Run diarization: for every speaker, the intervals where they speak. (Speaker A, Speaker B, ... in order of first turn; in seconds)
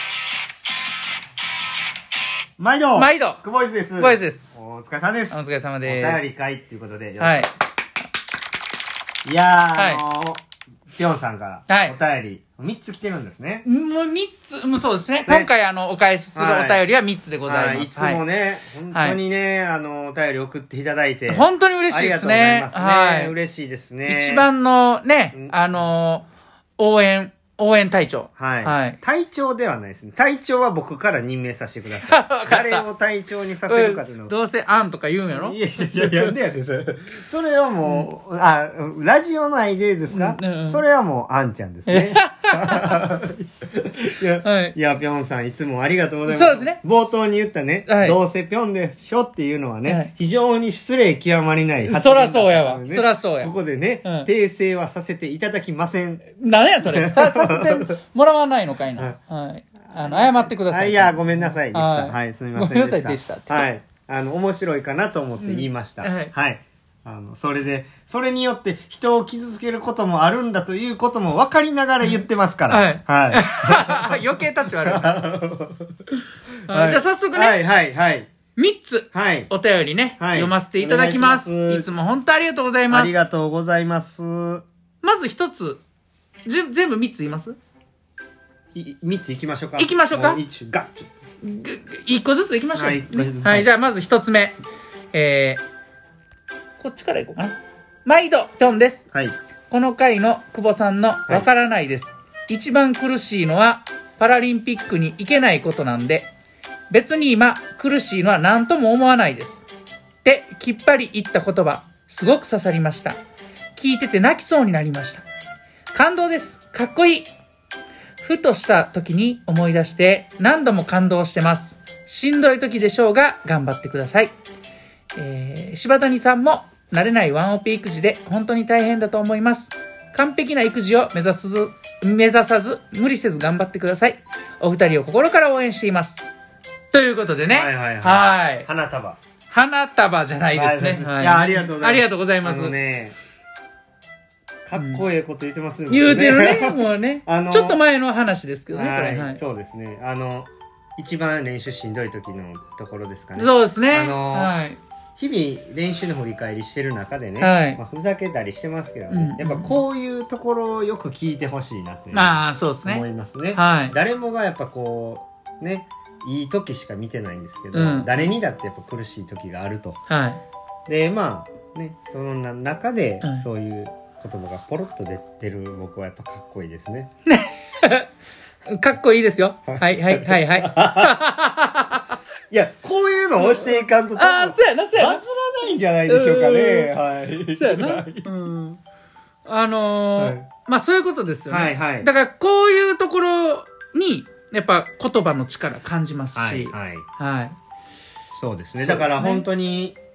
Speaker A: 2.6-7.5, 9.2-10.4, 11.0-13.7, 16.4-16.8, 17.5-24.5, 25.3-25.8, 28.4-34.4, 35.3-56.3, 56.8-57.9, 59.9-75.9, 76.7-78.3, 79.1-79.5, 80.2-81.9, 82.9-84.7, 88.7-91.1, 92.7-93.7, 137.5-139.2, 140.5-143.2, 144.7-147.8, 148.7-154.6, 155.2-170.0, 170.9-177.1, 179.7-181.2, 182.5-188.3, 190.2-190.5, 191.5-192.1, 196.3-197.1, 198.3-200.0
Speaker B: 3.0-3.4, 4.0-4.5, 5.3-6.3, 7.2-7.5, 9.8-10.0, 11.7-12.0, 13.7-18.2, 18.9-19.2, 21.3-23.3, 24.1-26.3, 26.8-29.0, 32.1-32.8, 33.7-36.4, 37.8-38.1, 40.1-40.8, 41.9-43.0, 44.4-44.8, 46.3-46.8, 47.9-48.2, 49.9-50.1, 51.9-53.5, 54.0-54.3, 56.3-63.7, 65.4-66.3, 72.0-75.2, 76.7-77.6, 78.5-83.1, 85.0-85.8, 86.5-87.6, 89.8-90.4, 91.4-94.6, 95.1-95.6, 96.8-99.1, 99.7-106.3, 106.9-109.7, 110.2-113.2, 113.8-115.2, 115.9-117.3, 118.2-124.3, 125.2-136.3, 136.9-138.7, 139.5-142.8, 144.8-145.0, 145.9-149.4, 153.4-154.8, 157.4-157.8, 159.1-159.8, 162.1-164.0, 167.7-168.3, 170.1-170.4, 177.3-178.1, 178.7-182.1, 183.4-185.2, 186.1-186.9, 187.5-188.8, 189.5-197.6, 198.8-199.5